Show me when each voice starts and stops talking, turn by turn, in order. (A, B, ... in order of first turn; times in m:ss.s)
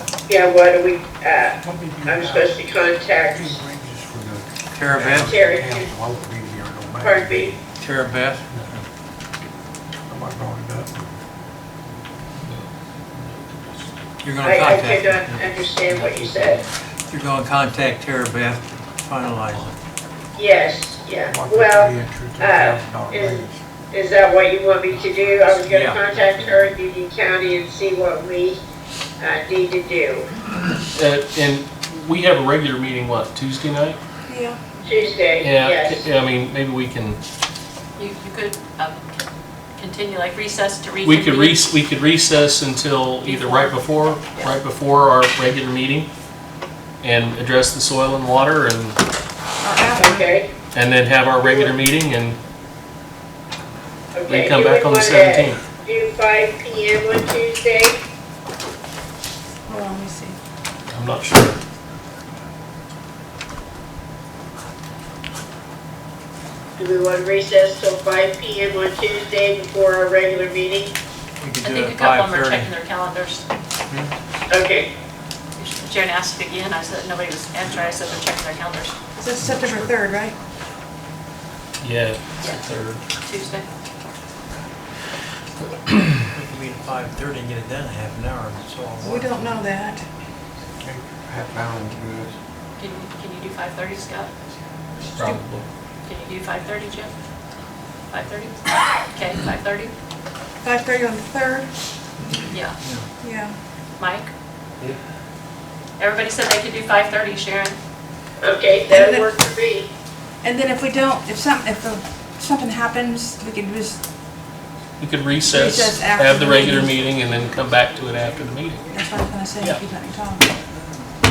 0:00.3-0:03.6 A
0:01.6-0:02.6 B
0:03.3-0:07.6 B
0:04.7-0:05.3 C
0:05.3-0:05.9 A
0:07.0-0:07.6 A
0:07.8-0:08.8 C
0:10.1-0:11.1 B
0:12.4-0:13.8 D
0:14.2-0:16.6 C
0:14.4-0:16.6 A
0:17.1-0:19.8 C
0:20.4-0:28.6 A
0:21.3-0:23.6 B
0:25.6-0:26.7 C
0:29.2-0:30.3 A
0:30.9-0:34.0 D
0:34.3-0:34.8 E
0:34.8-0:36.1 A
0:35.4-0:37.2 D
0:38.0-0:39.2 F
0:39.8-0:41.7 F
0:41.0-0:46.1 D
0:43.2-0:44.6 F
0:47.0-0:49.0 D
0:49.6-0:50.3 E
0:50.0-0:50.5 A
0:50.7-0:52.4 D
0:51.4-0:51.8 A
0:54.2-0:58.0 A
0:54.3-0:55.6 D
0:59.7-1:00.4 E
1:00.9-1:01.6 D
1:06.8-1:11.0 A
1:11.4-1:12.7 C
1:11.6-1:13.4 F
1:14.5-1:14.9 A
1:15.6-1:19.0 F
1:19.2-1:20.4 E
1:21.8-1:23.0 D
1:23.2-1:23.7 F
1:26.3-1:29.6 C
1:29.0-1:30.0 E
1:30.8-1:32.3 B
1:32.8-1:34.3 F
1:35.0-1:35.7 D
1:36.0-1:37.1 F
1:38.1-1:39.9 F
1:40.6-1:41.7 E
1:42.5-1:42.8 F
1:43.2-1:43.6 E
1:44.0-1:44.3 F
1:46.0-1:47.8 F
1:48.4-1:49.9 A
1:48.9-1:49.3 E
1:50.4-1:54.0 E
1:55.0-1:58.8 D
1:55.4-1:57.2 E
1:57.9-1:59.0 C
1:58.9-2:00.5 E
2:00.6-2:01.1 C